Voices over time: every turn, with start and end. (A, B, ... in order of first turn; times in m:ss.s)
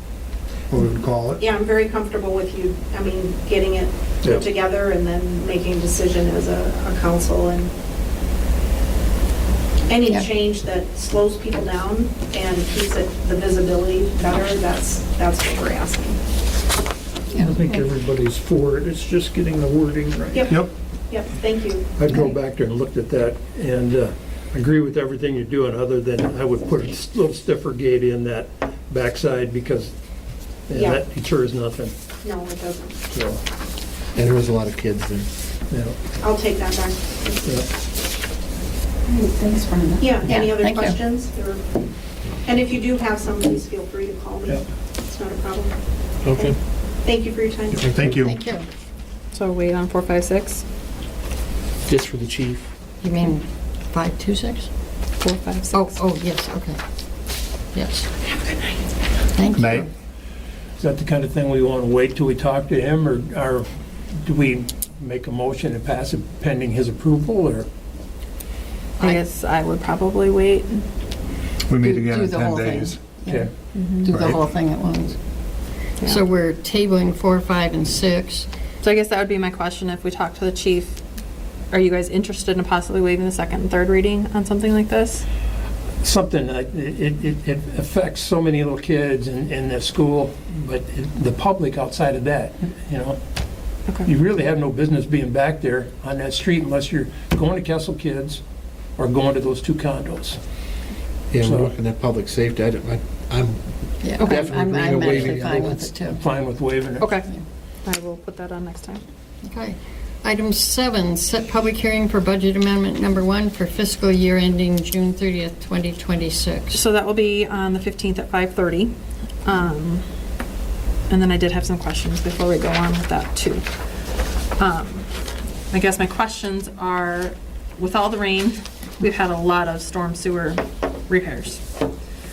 0:00.7-0:01.4 A
0:01.4-0:07.7 B
0:09.9-0:16.2 B
0:17.3-0:17.8 C
0:17.3-0:20.6 D
0:20.3-0:21.9 B
0:22.0-0:29.9 E
0:30.7-0:31.9 E
0:30.7-0:31.0 B
0:32.2-0:33.0 B
0:33.1-0:33.4 E
0:34.1-0:35.3 F
0:35.7-0:36.0 E
0:36.2-0:37.6 B
0:39.1-0:41.0 C
0:40.0-0:41.6 B
0:42.4-0:45.8 B
0:46.2-0:46.6 F
0:46.3-0:47.9 B
0:47.7-0:48.3 A
0:48.2-0:48.6 C
0:49.3-0:50.6 G
0:51.9-0:52.7 F
0:53.0-0:54.7 C
0:55.2-0:56.0 G
0:55.7-0:56.8 C
0:57.7-0:58.1 C
0:59.3-0:59.9 C
0:59.6-0:59.9 A
1:00.8-1:07.7 E
1:09.0-1:10.8 G
1:11.7-1:13.0 A
1:11.8-1:15.2 C
1:13.7-1:14.1 G
1:14.1-1:14.4 A
1:16.0-1:18.5 C
1:18.8-1:21.0 G
1:21.7-1:25.2 G
1:26.0-1:33.2 E
1:34.1-1:38.4 E
1:39.0-1:40.4 E
1:41.3-1:43.6 F
1:41.4-1:41.7 E
1:44.0-1:46.2 C
1:44.2-1:46.1 F
1:44.2-1:44.4 G
1:46.2-1:47.0 E
1:47.0-1:47.3 G
1:47.8-1:49.0 G
1:49.4-1:56.8 C
1:56.7-1:58.9 G
1:59.4-2:00.0 G
2:01.1-2:03.6 G
2:04.6-2:05.1 G
2:05.7-2:11.6 G